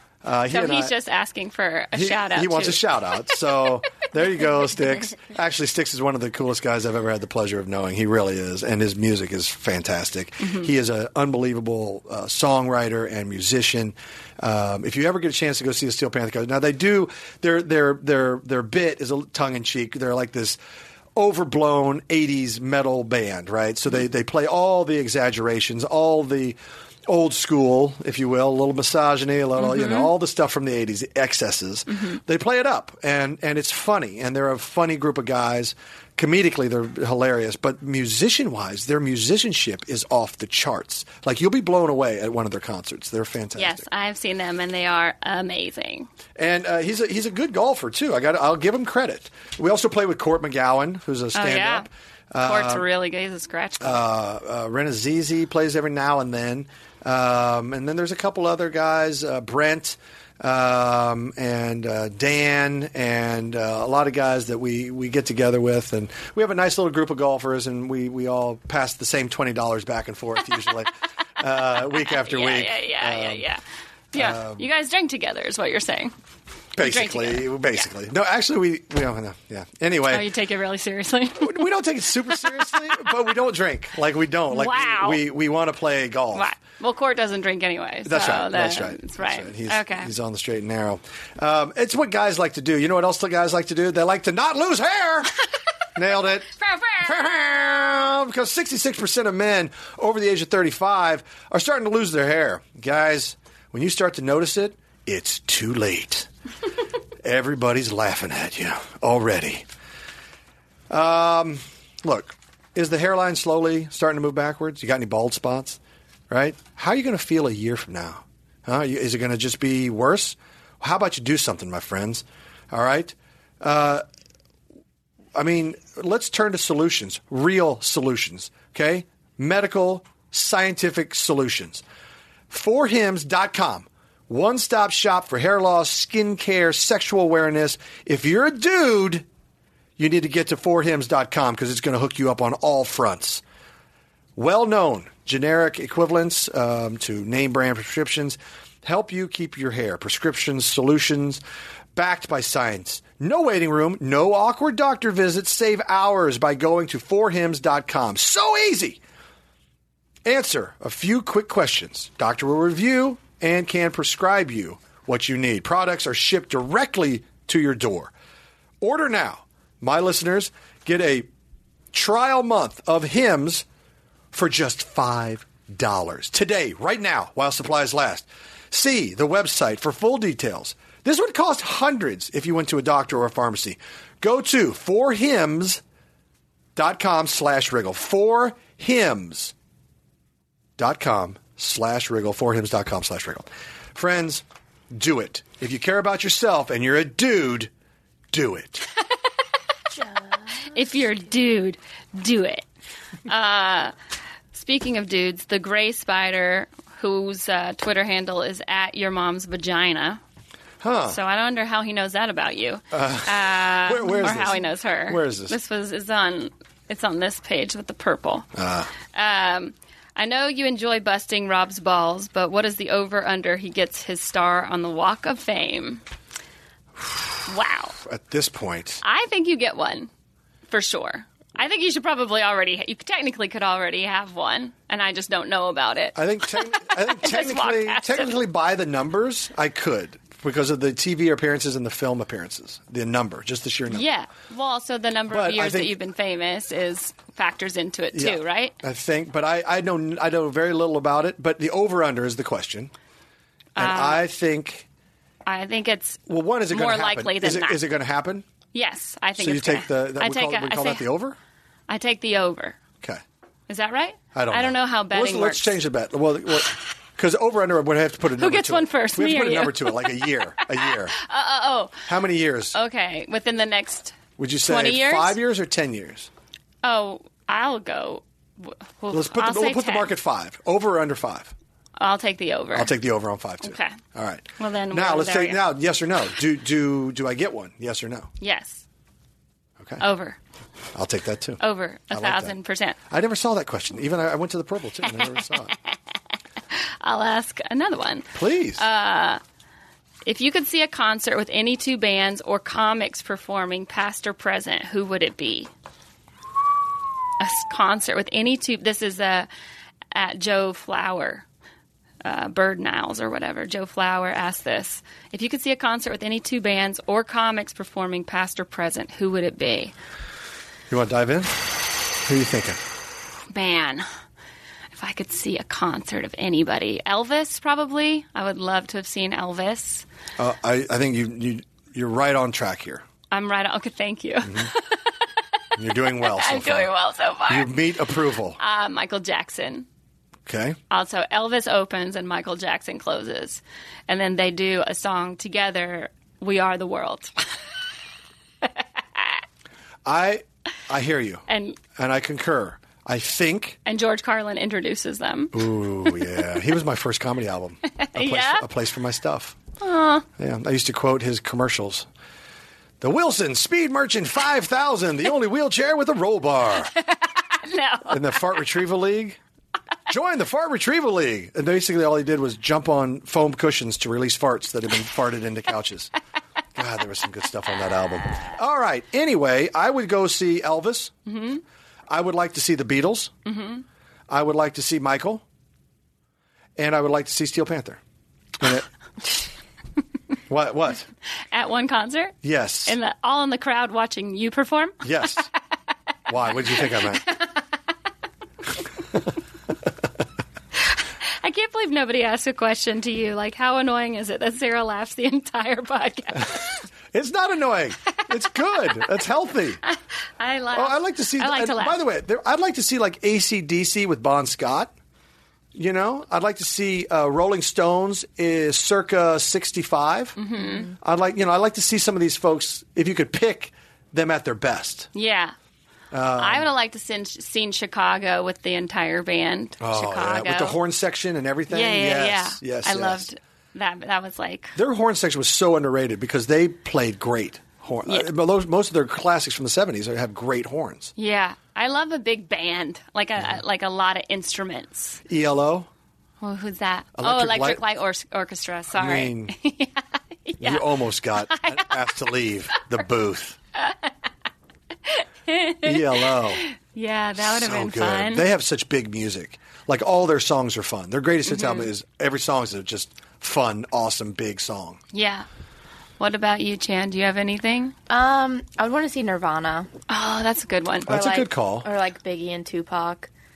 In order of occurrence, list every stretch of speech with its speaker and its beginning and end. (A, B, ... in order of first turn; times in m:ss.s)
0:00.2-0:01.0 A
0:00.5-0:02.9 B
0:01.9-0:20.6 A
0:10.4-0:10.7 B
0:21.1-0:43.8 A
0:29.6-0:30.1 B
0:31.9-0:32.2 B
0:43.6-0:46.1 B
0:46.4-0:52.8 A
0:51.3-0:51.9 B
0:52.4-0:54.0 B
0:53.8-1:13.4 A
1:11.9-1:13.6 B
1:14.1-1:16.1 B
1:14.1-1:14.7 A
1:16.7-1:20.3 A
1:16.8-1:17.6 B
1:20.1-1:21.7 B
1:21.4-1:26.5 A
1:24.5-1:25.2 B
1:26.3-1:30.1 B
1:28.0-1:35.3 A
1:35.9-1:46.3 A
1:36.6-1:38.0 B
1:47.2-1:49.6 A
1:50.9-1:55.8 A
1:56.3-2:04.0 A
2:05.3-2:11.8 A
2:12.5-2:19.2 A
2:20.0-2:23.4 A
2:24.4-2:31.4 A
2:31.9-2:39.0 A
2:40.2-2:48.1 A
2:48.8-2:51.3 A
2:51.9-2:53.6 A
2:54.3-3:05.8 A
3:06.8-3:09.5 A
3:10.8-3:17.7 A
3:18.3-3:18.9 A
3:20.7-3:22.6 B
3:23.2-3:23.9 B
3:24.5-3:30.2 B
3:30.8-3:31.2 A
3:31.1-3:38.4 B
3:32.9-3:35.6 A
3:38.5-3:38.9 A
3:39.1-3:46.0 B
3:47.0-3:47.2 A
3:47.4-3:48.0 B
3:48.0-3:49.0 A
3:49.0-3:50.1 B
3:50.7-3:58.3 B
3:56.1-4:04.1 A
4:03.9-4:08.7 B
4:05.3-4:05.9 A
4:08.1-4:12.9 A
4:13.8-4:14.2 B
4:13.8-4:14.9 A
4:15.4-4:17.8 B
4:16.3-4:18.4 A
4:18.7-4:21.1 B
4:19.4-4:21.4 A
4:21.9-4:22.8 B
4:23.7-4:25.8 B
4:24.3-4:31.1 A
4:28.4-4:32.1 B
4:32.0-4:32.8 A
4:32.7-4:35.4 B
4:34.4-4:36.3 A
4:36.8-4:40.1 B
4:39.1-4:41.5 A
4:42.0-4:42.9 B
4:42.7-4:48.3 A
4:43.6-4:44.0 B
4:44.6-4:45.6 B
4:48.4-4:48.8 B
4:50.0-4:50.4 B
4:50.9-4:52.6 A
4:51.6-4:53.0 B
4:53.1-4:55.7 A
4:57.0-4:59.4 B
4:58.3-4:58.8 A
5:00.2-5:05.7 B
5:07.4-5:09.5 B
5:10.1-5:11.4 B
5:12.2-5:19.9 B
5:20.9-5:22.8 A
5:23.5-5:24.0 B
5:24.9-5:30.0 B
5:30.4-5:33.0 A
5:33.3-5:35.1 B
5:34.4-5:34.7 A
5:35.8-5:36.9 A
5:36.1-5:37.7 B
5:37.5-5:38.6 A
5:38.6-5:39.8 B
5:40.4-5:40.8 A
5:40.9-5:47.3 B
5:50.0-5:51.4 A
5:51.5-5:51.8 B
5:51.9-5:53.8 A
5:53.8-5:56.3 B
5:55.5-5:59.6 A
5:58.0-5:58.6 B
5:59.8-6:00.2 B
6:00.4-6:02.1 A
6:03.0-6:06.9 A
6:07.0-6:08.2 B
6:08.1-6:09.4 A
6:10.1-6:16.1 A
6:16.8-6:21.1 A
6:21.3-6:21.6 B
6:22.1-6:23.3 A
6:23.4-6:23.8 B
6:24.3-6:25.4 A
6:26.8-6:28.0 A
6:28.6-6:28.9 A
6:30.5-6:31.1 A
6:31.5-6:35.4 B
6:32.4-6:33.0 A
6:35.0-6:35.5 A
6:36.3-6:37.3 A
6:36.8-6:37.5 B
6:40.9-6:46.8 B
6:47.1-6:49.8 A
6:49.9-6:52.0 B
6:50.7-6:54.9 A
6:55.7-7:00.4 A
7:00.4-7:00.9 B
7:00.9-7:05.1 A
7:05.1-7:05.5 B
7:06.1-7:06.7 A
7:06.3-7:10.8 B
7:09.8-7:13.3 A
7:11.7-7:14.8 B
7:14.8-7:21.1 A
7:21.2-7:25.2 B
7:25.3-7:25.9 A
7:26.4-7:32.3 B
7:27.2-7:27.8 A
7:28.9-7:29.5 A
7:30.6-7:33.6 A
7:33.8-7:34.1 B
7:35.0-7:38.5 B
7:35.8-7:36.6 A
7:37.4-7:45.0 A
7:41.5-7:41.9 B
7:45.1-7:45.4 B
7:46.2-7:47.9 B
7:48.1-7:49.9 C
7:50.1-7:51.1 B
7:51.1-7:51.9 A
7:51.1-7:53.3 C